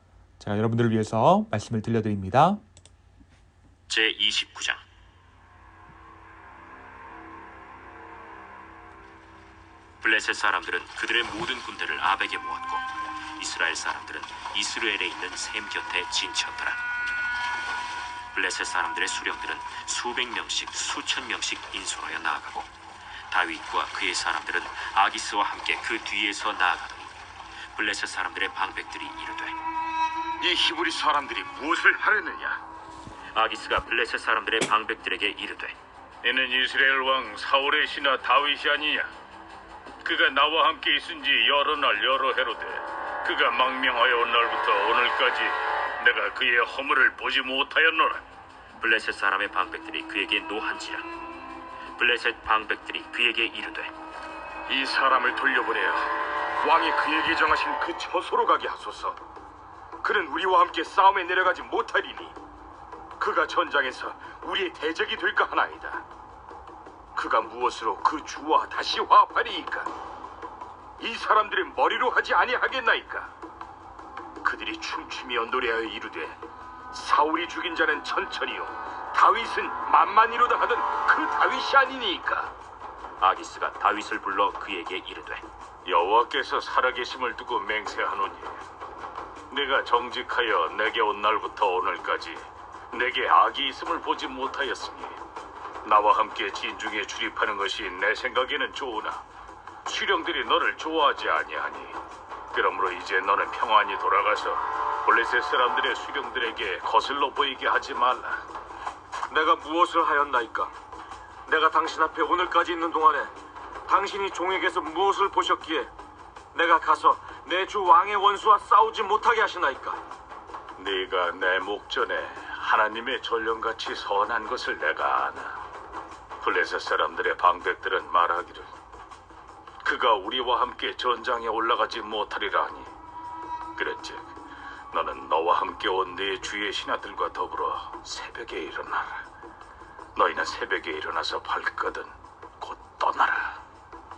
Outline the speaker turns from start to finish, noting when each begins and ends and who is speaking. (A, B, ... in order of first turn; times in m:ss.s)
0:00.4-0:02.6 A
0:03.9-0:04.8 B
0:10.0-0:16.8 B
0:18.3-0:22.7 B
0:23.3-0:27.1 B
0:27.7-0:29.6 B
0:30.4-0:32.6 C
0:33.3-0:35.7 B
0:36.2-0:39.1 C
0:40.0-0:48.2 C
0:48.8-0:51.1 B
0:52.0-0:53.9 B
0:54.7-0:59.2 C
1:00.0-1:02.4 C
1:03.2-1:06.0 C
1:07.1-1:09.9 C
1:11.0-1:13.3 C
1:14.4-1:16.4 C
1:16.9-1:22.5 C
1:23.2-1:25.4 B
1:25.8-1:28.5 C
1:29.5-1:35.2 C
1:35.8-1:39.2 C
1:39.8-1:42.0 C
1:42.5-1:48.4 C
1:49.3-1:50.7 D
1:51.4-1:53.3 D
1:53.9-1:55.9 D
1:56.5-2:00.0 D
2:00.8-2:05.6 C
2:06.4-2:08.7 C
2:09.8-2:12.9 C
2:13.8-2:14.3 C
2:14.9-2:19.2 C
2:20.2-2:23.6 C